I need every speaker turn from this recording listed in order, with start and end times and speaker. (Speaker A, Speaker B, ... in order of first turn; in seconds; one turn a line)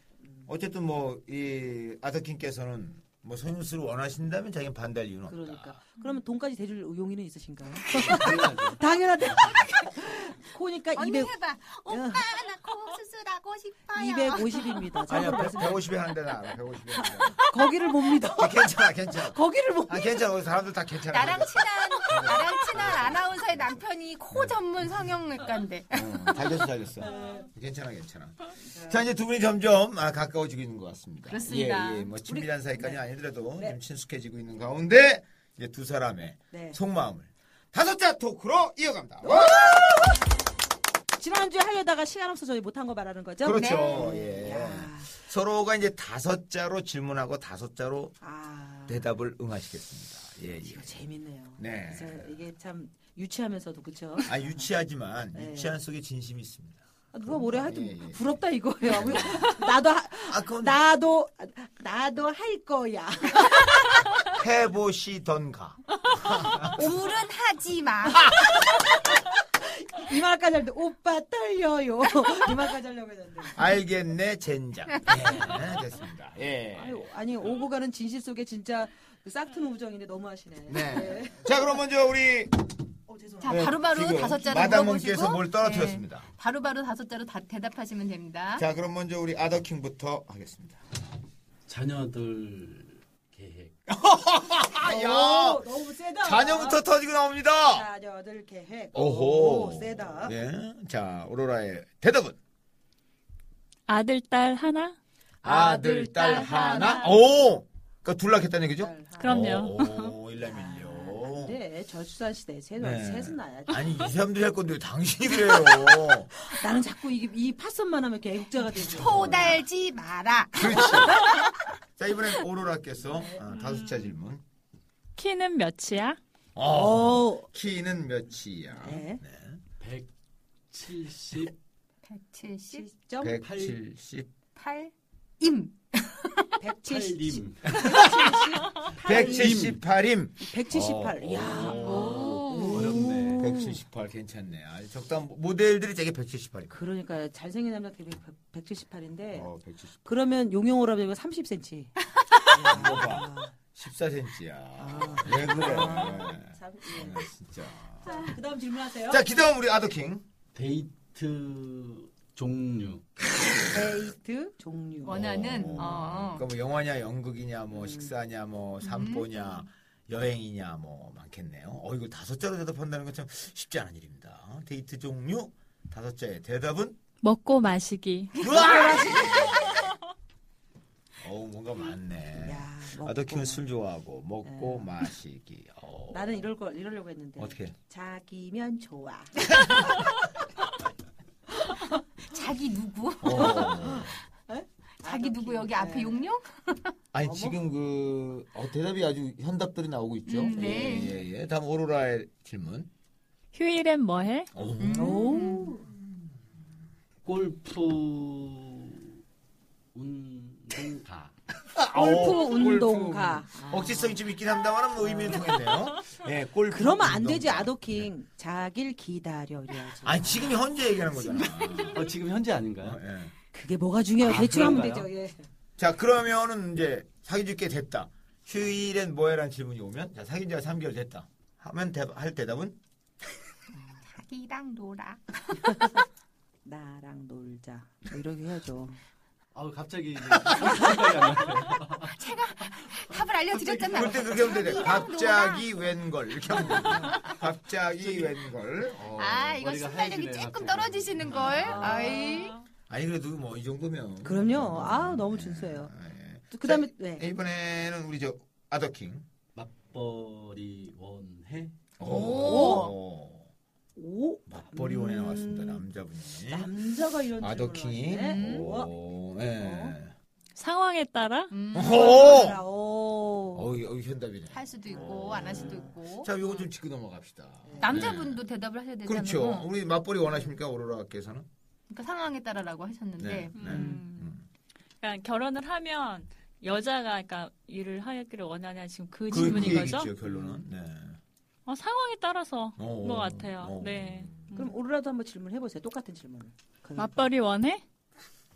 Speaker A: 0.5-5.8
Speaker B: 5.3-11.3
Speaker C: 8.0-8.8
Speaker D: 10.9-14.8
Speaker B: 11.9-12.2
Speaker B: 13.9-15.9
Speaker A: 15.1-17.4
Speaker B: 17.0-20.0
Speaker A: 18.4-24.6
Speaker D: 21.1-26.6
Speaker A: 25.9-40.1
Speaker B: 27.0-27.5
Speaker B: 28.6-29.1
Speaker D: 31.3-32.1
Speaker B: 32.2-33.0
Speaker B: 36.5-36.8
Speaker B: 39.2-40.1
Speaker B: 41.1-45.1
Speaker A: 43.4-48.1
Speaker D: 43.5-44.1
Speaker B: 48.2-49.1
Speaker A: 48.9-51.0
Speaker B: 50.6-54.7
Speaker A: 51.6-52.4
Speaker A: 54.2-58.2
Speaker B: 55.3-55.8
Speaker B: 57.1-63.9
Speaker A: 58.9-59.6
Speaker A: 60.2-60.8
Speaker A: 64.3-66.8
Speaker D: 66.6-68.7
Speaker B: 69.8-73.6
Speaker A: 73.5-77.0
Speaker B: 76.8-81.7
Speaker A: 80.7-82.7
Speaker B: 83.1-83.7
Speaker D: 83.4-88.6
Speaker A: 83.4-86.3
Speaker A: 88.6-90.8
Speaker C: 91.7-93.7
Speaker A: 93.9-95.7
Speaker B: 94.8-96.8
Speaker A: 96.2-97.8
Speaker B: 97.7-100.3
Speaker A: 98.9-102.4
Speaker E: 103.9-105.0
Speaker A: 105.4-111.6
Speaker E: 105.6-107.1
Speaker B: 106.0-107.1
Speaker B: 108.8-109.6
Speaker E: 109.2-110.1
Speaker B: 110.4-114.1
Speaker A: 112.8-116.3
Speaker B: 115.4-119.6
Speaker A: 118.7-119.6
Speaker D: 118.8-121.6
Speaker A: 120.5-121.4
Speaker A: 122.0-124.4
Speaker E: 123.6-124.0
Speaker E: 125.2-126.2
Speaker A: 126.5-129.6
Speaker B: 126.7-127.5
Speaker B: 128.8-129.2
Speaker C: 129.8-130.1
Speaker C: 130.7-131.5
Speaker D: 132.0-132.8
Speaker B: 132.7-133.4
Speaker A: 133.2-134.3
Speaker C: 133.4-133.8
Speaker D: 134.5-136.5
Speaker B: 136.6-139.7
Speaker C: 136.8-137.7
Speaker A: 137.7-146.8
Speaker C: 138.9-139.8
Speaker B: 140.4-143.8
Speaker D: 141.7-143.0
Speaker B: 146.7-149.5
Speaker A: 149.3-150.0
Speaker B: 150.0-151.9
Speaker B: 152.5-153.5
Speaker A: 152.6-158.3
Speaker B: 154.8-157.2
Speaker B: 158.0-159.2
Speaker A: 159.1-160.2
Speaker C: 160.5-163.2
Speaker B: 163.7-166.0
Speaker D: 165.0-166.5
Speaker A: 165.1-177.0
Speaker B: 167.7-168.1
Speaker D: 168.8-169.6
Speaker E: 177.2-178.4
Speaker A: 178.3-179.9
Speaker B: 178.5-179.6
Speaker A: 181.2-186.4
Speaker B: 182.4-183.6
Speaker B: 184.4-184.9
Speaker B: 186.1-189.8
Speaker A: 187.4-187.7
Speaker D: 192.2-193.9
Speaker A: 193.2-194.2
Speaker B: 193.3-196.2
Speaker D: 195.0-196.9
Speaker A: 197.1-202.9
Speaker B: 197.2-197.6
Speaker D: 200.3-201.2
Speaker E: 203.5-204.5
Speaker A: 204.5-205.3
Speaker D: 204.8-205.8
Speaker B: 204.9-205.8
Speaker A: 205.8-206.2
Speaker C: 207.2-209.1
Speaker C: 209.9-211.3
Speaker A: 211.7-218.1
Speaker B: 211.9-214.2
Speaker B: 215.0-215.6
Speaker B: 216.7-220.6
Speaker A: 220.0-222.1
Speaker C: 221.9-223.0
Speaker A: 222.8-223.3
Speaker B: 223.5-225.5
Speaker C: 224.2-225.1
Speaker A: 225.8-232.8
Speaker D: 234.1-235.9
Speaker B: 236.6-239.0
Speaker C: 239.5-242.4
Speaker A: 240.4-240.8
Speaker D: 242.1-245.7
Speaker C: 243.5-244.2
Speaker A: 243.9-249.5
Speaker D: 246.6-247.3
Speaker C: 248.0-248.4
Speaker C: 249.0-252.1
Speaker D: 249.1-252.6
Speaker A: 251.3-251.8
Speaker B: 251.6-252.4
Speaker E: 252.3-252.6
Speaker A: 252.9-259.2
Speaker B: 254.2-255.9
Speaker B: 256.5-257.2
Speaker C: 259.5-261.9
Speaker A: 262.0-263.5
Speaker D: 262.0-262.9
Speaker B: 262.3-262.9
Speaker B: 263.9-265.8
Speaker A: 264.5-266.7
Speaker B: 266.5-268.9
Speaker A: 267.4-270.1
Speaker D: 268.2-268.7
Speaker B: 269.6-270.0
Speaker E: 270.6-271.5
Speaker D: 271.5-272.6
Speaker A: 271.7-272.6
Speaker B: 271.8-273.7
Speaker A: 273.5-278.4
Speaker D: 274.5-276.4
Speaker B: 274.9-275.9
Speaker B: 277.6-278.1
Speaker D: 277.8-279.7
Speaker A: 279.0-281.4
Speaker D: 281.9-283.6
Speaker A: 283.2-284.4
Speaker E: 283.5-284.3
Speaker B: 283.6-284.0
Speaker E: 285.0-290.1
Speaker A: 289.3-291.2
Speaker B: 289.3-289.7
Speaker B: 290.2-290.6
Speaker E: 291.6-294.7
Speaker A: 292.8-294.6
Speaker B: 294.5-297.3
Speaker E: 296.9-297.8